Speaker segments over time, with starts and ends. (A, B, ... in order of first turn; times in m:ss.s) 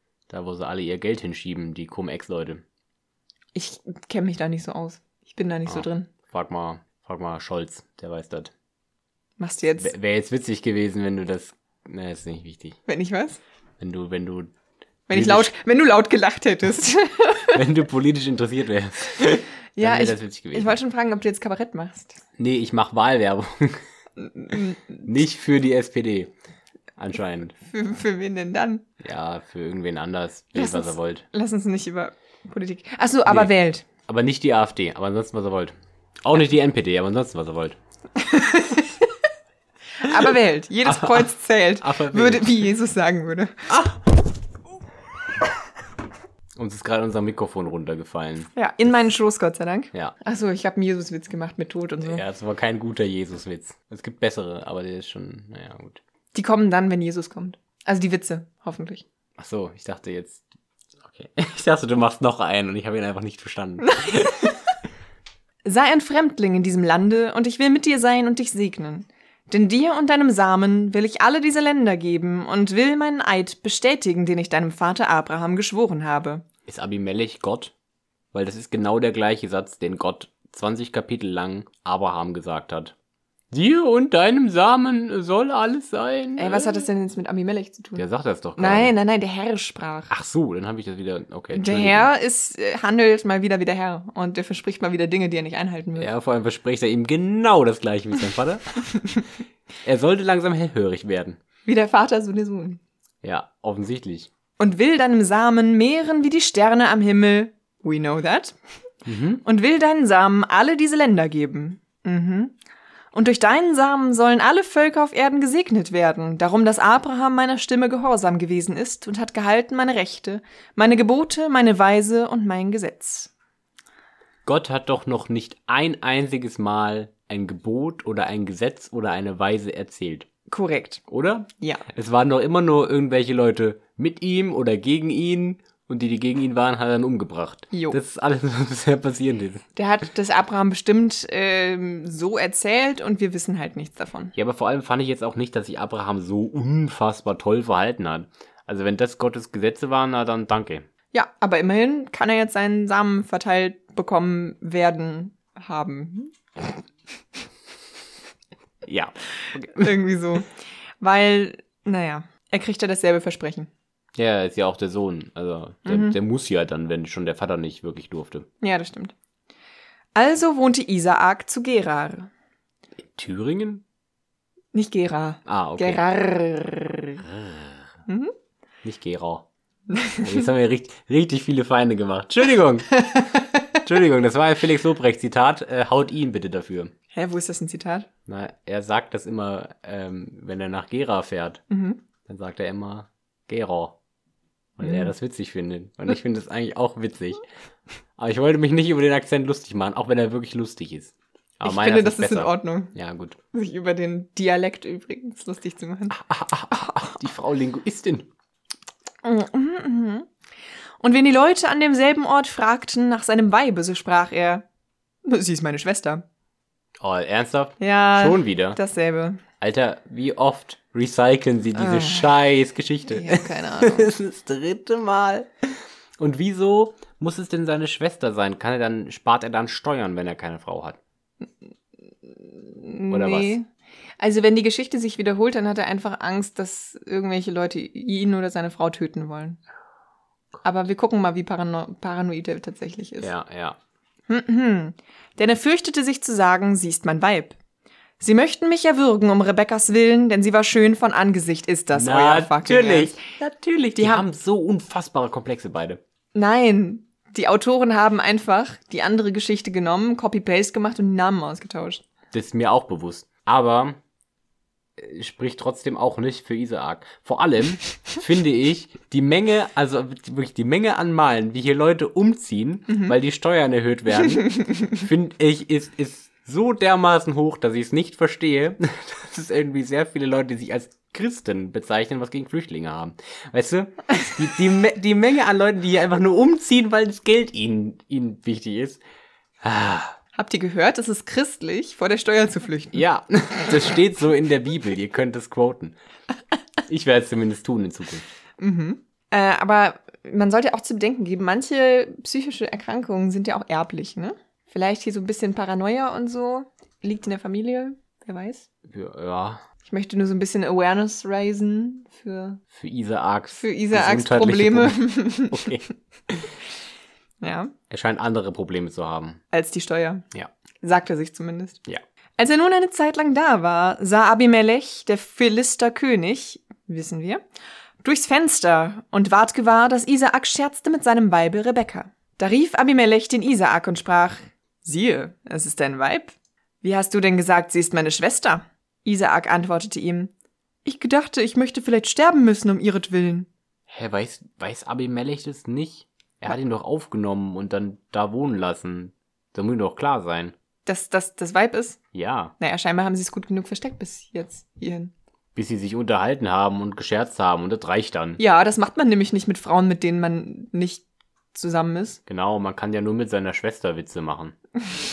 0:00.3-0:02.6 A
0:03.5-0:06.1 B
0:05.7-0:08.5 A
0:09.4-0:09.9 B
0:09.8-0:12.8 A
0:12.9-0:13.4 B
0:13.8-0:14.5 A
0:15.1-0:17.6 B
0:15.1-0:15.5 A
0:17.5-0:20.8 A
0:19.2-0:22.2 B
0:22.4-0:23.8 A
0:24.2-0:25.0 B
0:25.0-0:26.3 A
0:27.0-0:27.5 A
0:27.7-0:28.8 B
0:29.0-0:31.2 A
0:30.6-0:33.8 B
0:33.3-0:33.5 A
0:34.0-0:35.7 A
0:36.2-0:37.8 A
0:38.2-0:39.1 B
0:40.0-0:43.8 B
0:40.9-0:42.6 A
0:46.6-0:48.5 A
0:48.6-0:52.2 B
0:52.0-0:56.0 A
0:56.3-0:59.0 B
0:59.4-1:00.4 A
1:01.0-1:04.5 A
1:03.8-1:04.6 B
1:05.6-1:16.4 B
1:16.6-1:17.7 A
1:18.3-1:22.9 A
1:23.5-1:26.8 A
1:26.4-1:28.1 B
1:28.0-1:28.9 A
1:28.6-1:30.1 B
1:30.1-1:32.1 A
1:31.5-1:36.1 B
1:36.0-1:39.1 A
1:39.8-1:41.4 A
1:41.6-1:42.8 B
1:43.2-1:44.3 A
1:44.6-1:48.6 B
1:49.1-1:49.4 A
1:49.4-1:52.6 B
1:53.1-2:03.3 B
2:04.4-2:10.3 A
2:10.5-2:11.0 B
2:11.1-2:19.6 A
2:17.7-2:18.0 B
2:19.8-2:24.3 B
2:24.3-2:30.9 A
2:31.1-2:36.8 B
2:38.9-2:40.0 A
2:39.8-2:43.7 B
2:44.2-2:48.5 A
2:45.9-2:46.2 B
2:48.6-2:49.1 B
2:50.1-2:52.3 B
2:53.1-2:53.8 A
2:54.7-2:57.2 B
2:55.4-2:56.0 A
2:57.2-2:57.8 A
2:58.1-2:58.3 B
2:58.8-2:59.5 A
2:59.9-3:00.4 B
3:00.1-3:06.9 A
3:07.1-3:08.1 B
3:08.2-3:11.6 A
3:11.7-3:12.0 B
3:12.2-3:14.0 A
3:14.8-3:17.4 A
3:14.8-3:15.1 B
3:18.2-3:23.4 A
3:21.6-3:22.9 B
3:23.5-3:26.2 B
3:26.1-3:28.3 A
3:29.2-3:30.3 B
3:31.0-3:34.6 B
3:35.2-3:36.2 B
3:37.0-3:38.8 A
3:37.8-3:39.4 B
3:39.6-3:51.0 A
3:41.8-3:42.3 B
3:43.1-3:44.1 B
3:52.2-3:59.6 B
3:53.1-3:53.6 A
4:00.6-4:03.3 B
4:03.2-4:03.8 A
4:04.3-4:07.6 B
4:08.2-4:13.2 B
4:11.9-4:16.0 A
4:14.0-4:14.2 B
4:16.3-4:22.0 B
4:22.3-4:24.0 A
4:25.0-4:49.0 A
4:49.6-4:50.2 A
4:50.3-4:53.0 B
4:52.9-4:56.0 A
4:56.9-4:58.2 A
4:58.6-5:08.7 B
5:08.8-5:09.6 A
5:09.8-5:12.6 B
5:12.7-5:16.5 A
5:13.5-5:15.8 B
5:17.4-5:17.7 B
5:17.9-5:19.4 A
5:19.5-5:20.2 B
5:20.8-5:21.8 B
5:22.4-5:27.4 B
5:28.0-5:40.3 B
5:40.8-5:43.5 B
5:43.9-5:50.5 A
5:50.9-5:52.0 B
5:52.1-5:52.5 A
5:52.6-5:55.1 B
5:55.5-5:58.4 A
5:58.4-6:02.2 B
6:02.3-6:04.6 A